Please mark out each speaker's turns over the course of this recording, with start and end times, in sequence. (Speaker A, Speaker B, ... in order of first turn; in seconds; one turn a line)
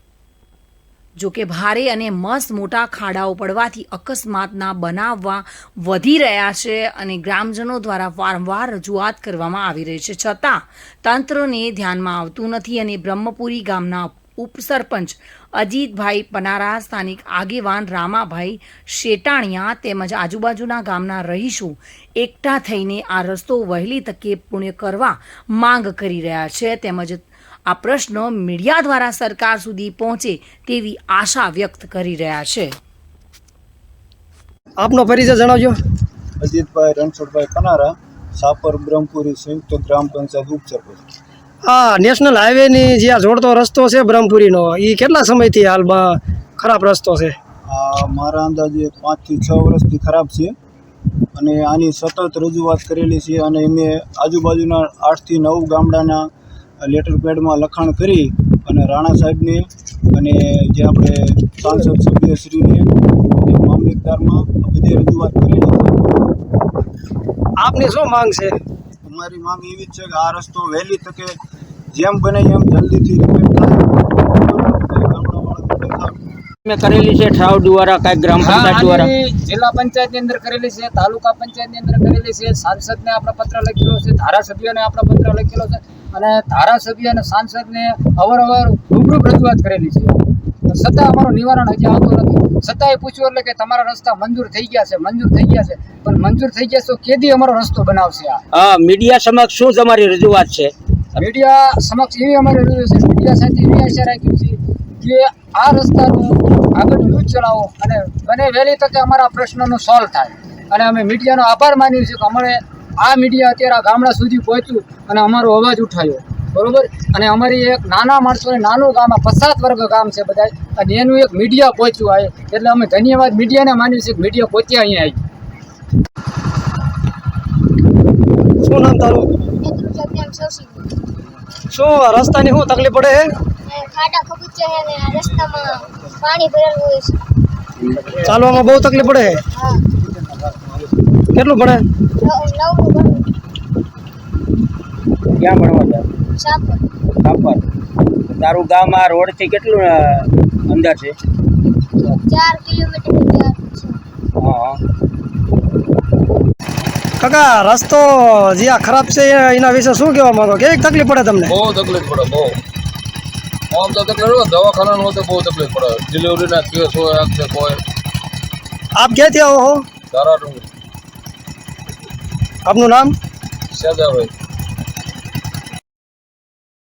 Speaker A: 1.2-32.7
Speaker B: 34.8-35.7
Speaker C: 36.4-41.0
Speaker B: 41.7-47.3
Speaker C: 47.7-50.5
Speaker C: 51.3-56.3
Speaker C: 56.8-66.0
Speaker B: 67.6-68.5
Speaker C: 69.0-71.3
Speaker C: 71.9-76.2
Speaker D: 76.7-79.1
Speaker E: 78.4-98.4
Speaker D: 98.5-101.2
Speaker E: 101.2-125.2
Speaker B: 128.6-129.3
Speaker F: 129.4-131.1
Speaker B: 131.7-133.2
Speaker F: 133.5-137.2
Speaker D: 137.9-138.2
Speaker B: 138.2-139.3
Speaker F: 139.5-139.9
Speaker B: 141.3-141.8
Speaker F: 142.1-143.3
Speaker D: 145.4-146.0
Speaker F: 146.3-146.8
Speaker D: 147.2-147.6
Speaker D: 148.3-151.1
Speaker F: 152.0-154.0
Speaker D: 154.4-154.8
Speaker B: 157.2-161.5
Speaker G: 161.5-162.6
Speaker G: 163.7-167.8
Speaker B: 168.9-169.8
Speaker G: 170.1-170.7
Speaker B: 172.7-173.1
Speaker G: 173.7-174.3